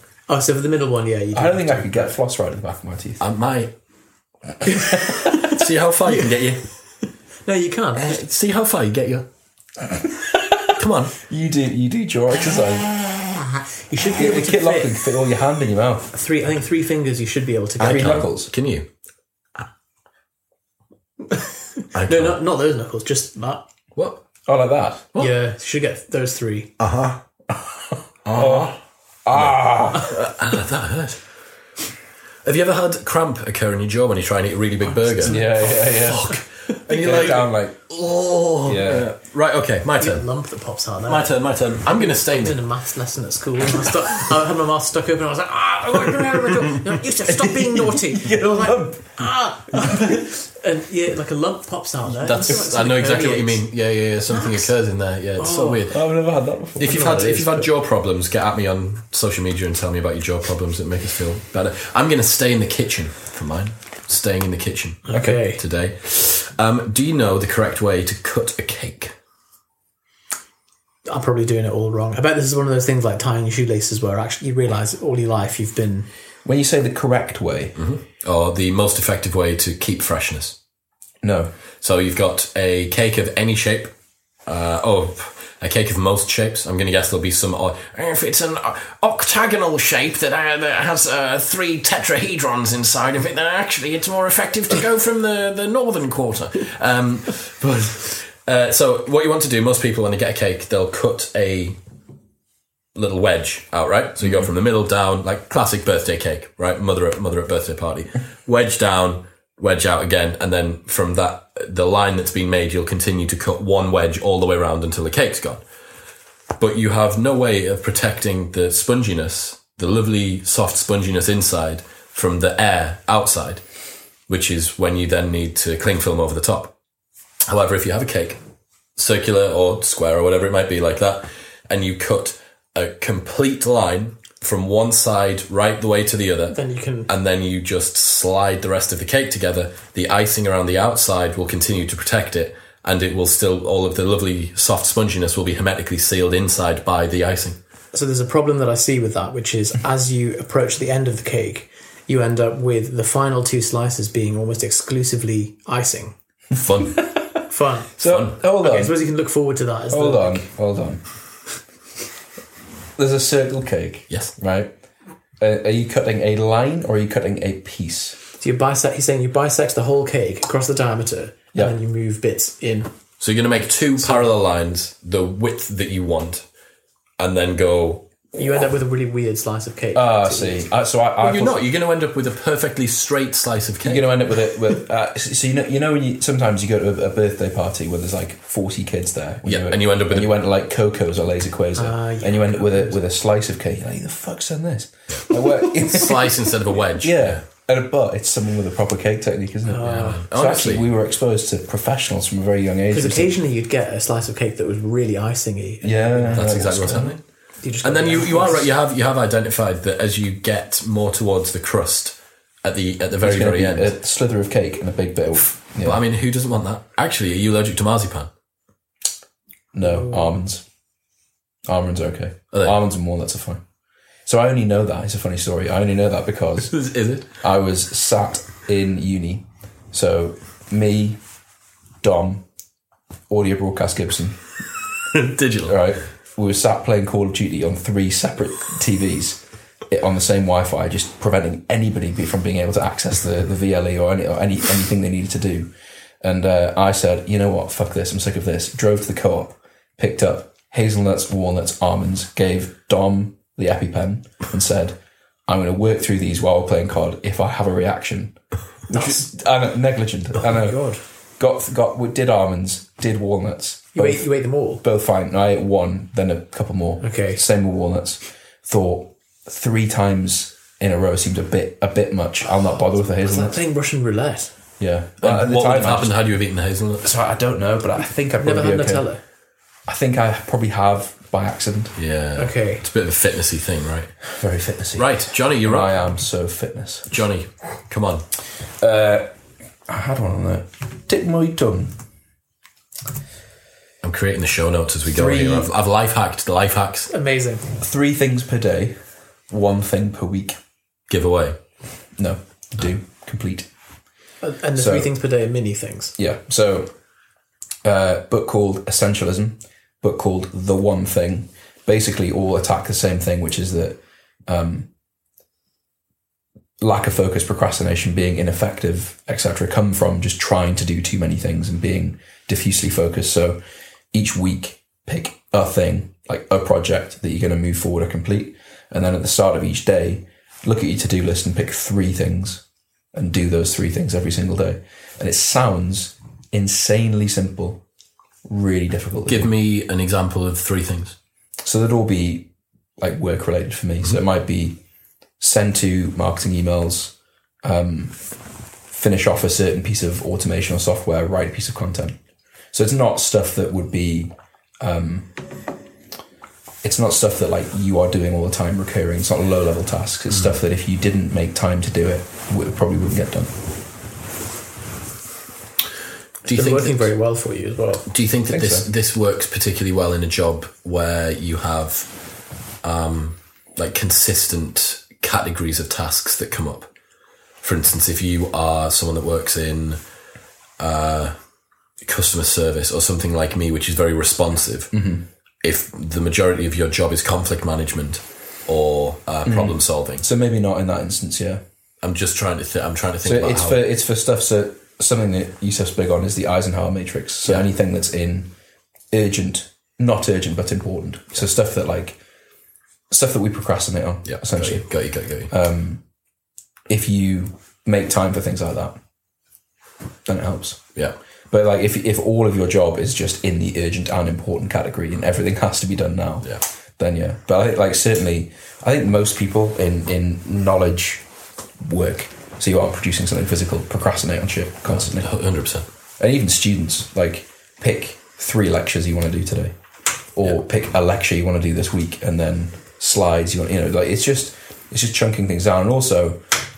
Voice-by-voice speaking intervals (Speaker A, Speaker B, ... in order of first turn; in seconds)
Speaker A: 0.3-2.1, 6.1-6.5, 7.4-8.2, 13.8-15.1, 16.1-18.3, 21.2-23.6, 25.1-26.7, 35.2-36.0, 40.0-41.3, 41.9-53.6, 54.3-54.7, 55.4-55.9, 56.8-57.7, 65.1-65.6, 71.0-76.1, 136.5-137.1, 147.9-156.1, 157.5-157.9, 158.5-160.5, 168.4-172.9, 174.0-174.3, 178.3-180.7, 191.7-193.0, 199.7-200.2, 202.9-206.4, 207.6-208.7, 258.9-259.2, 260.3-261.0, 263.9-264.8, 267.0-267.4, 273.0-274.5, 278.4-279.2, 282.4-282.8, 297.1-297.6, 304.4-306.1, 366.5-368.1
Speaker B: 1.3-3.2, 9.9-13.0, 14.1-16.1, 17.8-18.5, 24.4-25.1, 28.2-30.2, 35.2-37.8, 38.6-39.1, 47.4-49.1, 55.9-57.0, 65.1-65.4, 76.4-77.8, 81.2-81.5, 158.0-158.9, 159.9-161.1, 163.0-164.7, 165.4-168.2, 179.9-181.7, 183.8-203.3, 205.8-207.2, 213.2-216.0, 219.7-220.6, 221.7-223.6, 224.2-226.7, 227.4-231.2, 232.0-232.4, 233.3-234.4, 235.6-245.7, 246.2-258.4, 258.9-264.3, 264.8-273.6, 274.8-276.1, 277.0-279.1, 279.9-281.9, 284.3-287.2, 288.8-289.3, 289.9-292.0, 295.1-295.7, 297.8-299.0, 299.5-300.6, 302.2-303.7, 304.8-305.1, 306.2-306.9, 307.8-314.9, 316.8-323.6, 324.1-332.6, 333.1-337.8, 338.4-339.5, 341.6-344.8, 345.4-348.2, 348.9-352.2, 352.7-355.4, 356.8-363.5, 368.5-368.9, 384.9-385.3, 389.4-391.6, 393.2-398.5, 399.1-402.2, 403.1-404.9, 405.5-406.0, 406.9-409.0, 410.2-410.9, 411.5-421.2, 421.8-425.3, 426.2-429.7, 430.4-436.4
Speaker C: 3.2-3.7, 5.3-6.6, 7.9-9.2, 10.7-11.2, 17.8-18.9, 21.9-22.4, 23.9-24.2, 26.8-27.2, 28.2-28.8, 29.3-31.2, 32.4-40.3, 41.0-42.6, 52.1-56.1, 56.8-69.1, 77.8-80.5, 81.8-83.9, 84.5-101.8, 102.9-115.6, 116.6-123.6, 124.3-126.7, 127.5-128.4, 128.9-147.6, 156.6-157.1, 158.0-158.3, 173.2-176.4, 177.2-178.1, 181.2-184.2, 189.4-190.4, 195.1-197.4, 199.8-200.9, 206.3-207.2, 207.8-214.0, 215.7-218.3, 226.7-227.2, 235.1-235.8, 275.2-277.1, 282.0-284.1, 284.9-286.0, 287.1-288.2, 294.0-297.1, 301.1-301.6, 339.3-341.1, 366.4-367.1, 368.1-372.1, 372.8-376.9, 377.6-380.0, 380.8-381.3, 382.0-384.9, 385.6-390.2, 392.0-393.9, 404.2-405.5, 424.9-425.9